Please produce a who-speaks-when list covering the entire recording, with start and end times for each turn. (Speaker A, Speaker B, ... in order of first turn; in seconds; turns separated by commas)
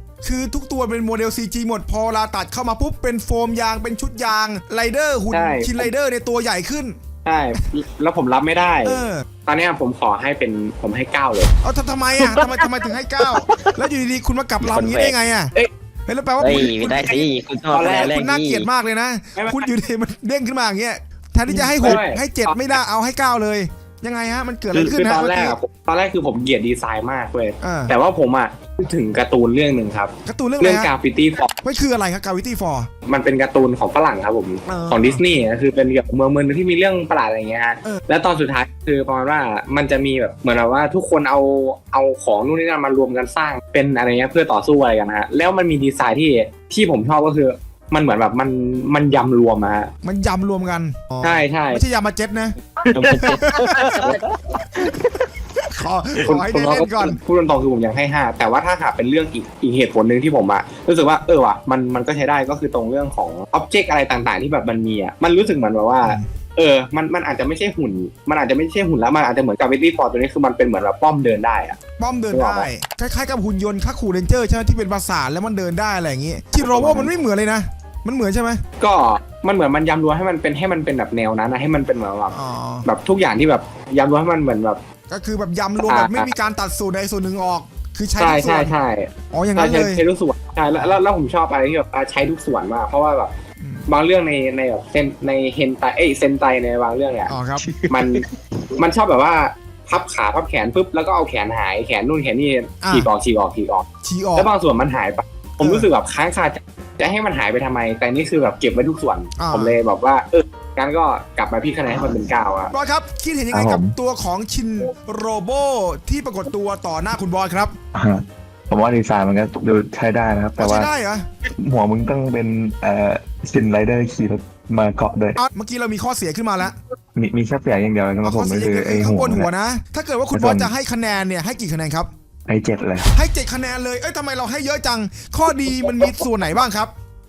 Speaker A: 0.2-7.0, Speaker B: 5.3-5.9, Speaker B: 7.2-11.5, Speaker A: 8.8-9.3, Speaker A: 11.6-15.5, Speaker B: 12.2-12.7, Speaker C: 14.6-15.2, Speaker A: 16.1-17.3, Speaker C: 16.4-18.7, Speaker B: 17.7-18.2, Speaker A: 17.9-25.6, Speaker B: 19.4-19.7, Speaker B: 21.5-22.8, Speaker B: 24.7-31.5, Speaker A: 27.6-28.0, Speaker A: 30.3-30.9, Speaker A: 31.6-32.9, Speaker B: 33.1-49.9, Speaker A: 34.6-35.2, Speaker A: 50.0-54.2, Speaker B: 51.2-51.8, Speaker B: 52.9-54.1, Speaker A: 54.8-57.2, Speaker B: 56.2-71.8, Speaker A: 72.0-78.6, Speaker B: 72.3-72.7, Speaker B: 76.5-77.1, Speaker B: 78.8-82.3, Speaker A: 82.3-82.9, Speaker B: 82.9-84.8, Speaker A: 85.1-88.8, Speaker B: 85.8-86.3, Speaker B: 88.2-93.3, Speaker A: 89.3-90.0, Speaker B: 93.9-98.3, Speaker A: 97.3-97.9, Speaker B: 98.8-112.7, Speaker A: 102.8-103.1, Speaker A: 104.0-104.5, Speaker A: 105.6-105.9, Speaker A: 109.3-109.8, Speaker A: 112.7-117.8, Speaker D: 113.5-114.0, Speaker D: 117.9-120.9, Speaker A: 120.6-121.3, Speaker D: 121.5-125.4, Speaker A: 125.4-126.8, Speaker D: 127.2-129.5, Speaker A: 128.2-132.1, Speaker D: 130.3-130.7, Speaker D: 132.5-133.1, Speaker A: 133.1-136.9